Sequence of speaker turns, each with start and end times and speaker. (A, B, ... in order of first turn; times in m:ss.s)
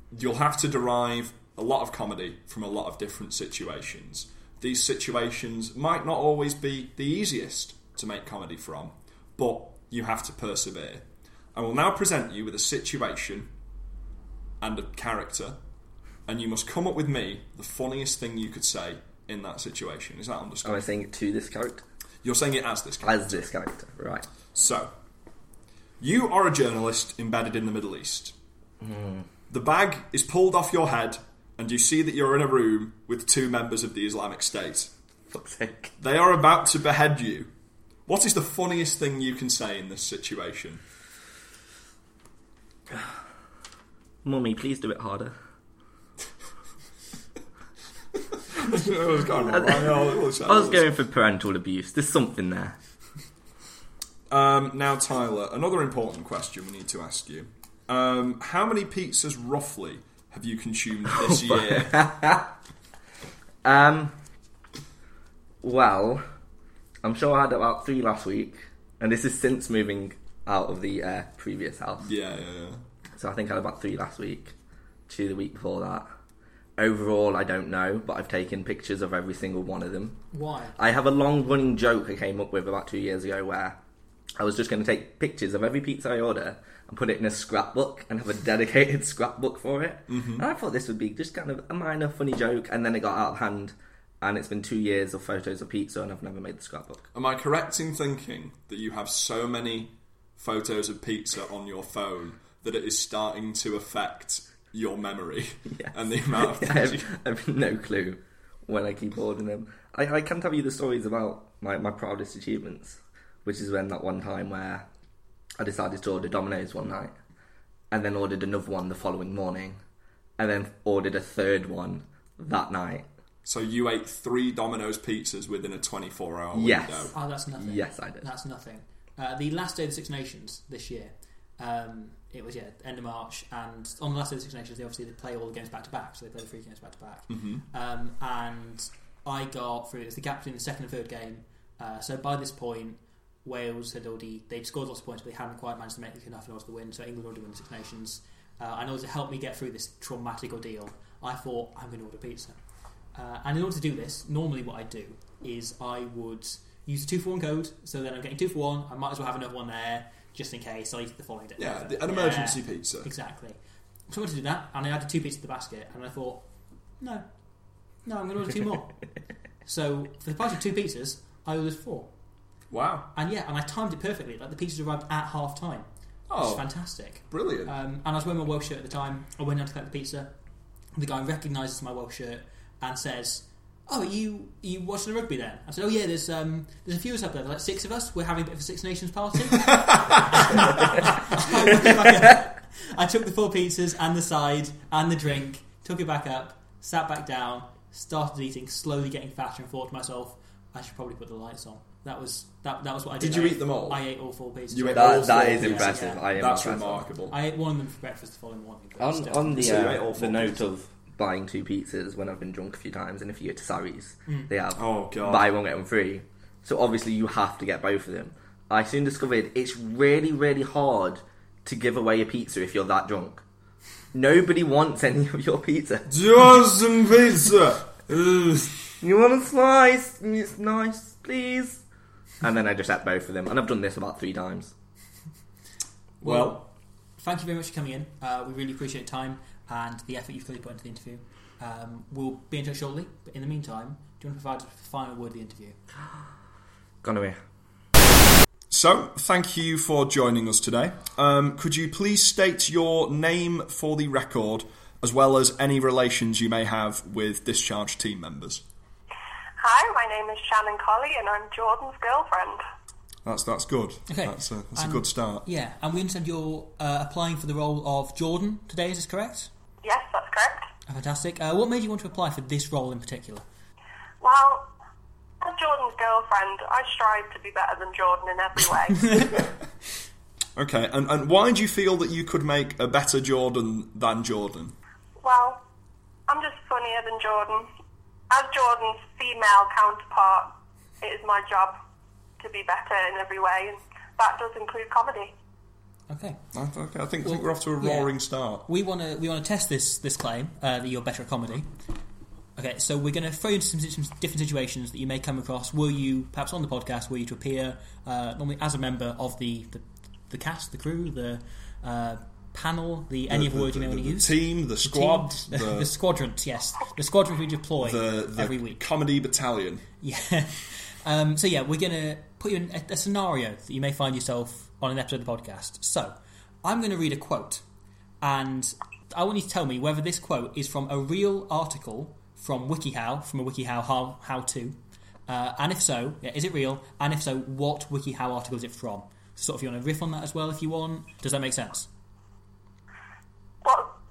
0:00.1-0:13.5 A
0:14.6-0:15.6 A
0:16.3-0:20.8 A
0:20.6-0:21.8 B
0:22.2-0:23.3 A
0:23.0-0:24.3 B
0:24.5-0:24.9 A
0:26.0-0:28.3 A
0:28.8-0:29.3 B
0:29.5-0:34.9 A
0:35.3-0:35.9 B
0:36.0-0:37.5 A
0:38.1-0:40.8 A
0:44.2-0:45.4 B
0:48.5-0:50.8 A
0:49.4-0:52.8 B
0:54.3-1:02.1 A
1:01.1-1:02.5 B
1:03.6-1:04.2 B
1:05.6-1:06.2 B
1:07.0-1:12.1 B
1:12.0-1:12.8 A
1:13.2-1:14.5 B
1:15.1-1:16.1 B
1:16.8-1:20.2 B
1:20.3-1:20.8 C
1:20.8-1:23.8 B
1:24.4-1:37.1 B
1:30.1-1:30.5 A
1:37.1-1:47.1 A
1:45.8-1:54.9 B
1:55.6-1:57.2 B
1:57.9-1:59.8 B
2:00.4-2:03.1 B
2:03.4-2:07.1 A
2:06.5-2:08.3 B
2:07.1-2:32.6 C
2:17.3-2:17.6 A
2:33.2-2:43.6 C
2:41.6-2:43.1 A
2:44.1-2:46.5 C
2:47.0-2:47.2 C
2:48.0-2:49.1 C
2:49.6-2:52.1 C
2:52.7-2:53.1 A
2:53.1-3:00.3 C
2:56.3-2:57.7 A
3:01.0-3:26.3 C
3:23.2-3:24.0 A
3:24.7-3:27.4 A
3:24.9-3:27.1 B
3:27.3-3:30.0 C
3:29.0-3:43.4 B
3:29.5-3:30.6 A
3:34.8-3:35.5 A
3:44.1-3:46.1 B
3:46.1-3:48.7 A
3:49.0-3:51.8 B
3:52.4-3:54.7 B
3:56.2-3:56.6 A
3:56.2-3:56.7 C
3:57.2-4:05.8 C
4:07.0-4:07.4 B
4:08.7-4:18.6 A
4:19.6-4:22.6 D
4:23.2-4:25.4 A
4:24.1-4:29.5 C
4:29.8-4:30.7 D
4:30.9-4:33.4 C
4:34.2-4:34.7 D
4:35.4-4:39.2 D
4:40.6-4:44.8 A
4:45.2-4:45.6 D
4:46.3-4:47.7 D
4:48.3-4:51.8 D
4:52.4-4:55.3 D
4:56.1-4:56.4 C
4:56.5-4:58.7 A
4:57.2-4:58.1 C
4:58.7-5:01.7 C
5:02.6-5:18.8 C
5:13.3-5:15.9 A
5:17.8-5:19.9 A
5:20.0-5:27.6 C
5:28.2-5:41.9 C
5:43.6-5:43.9 D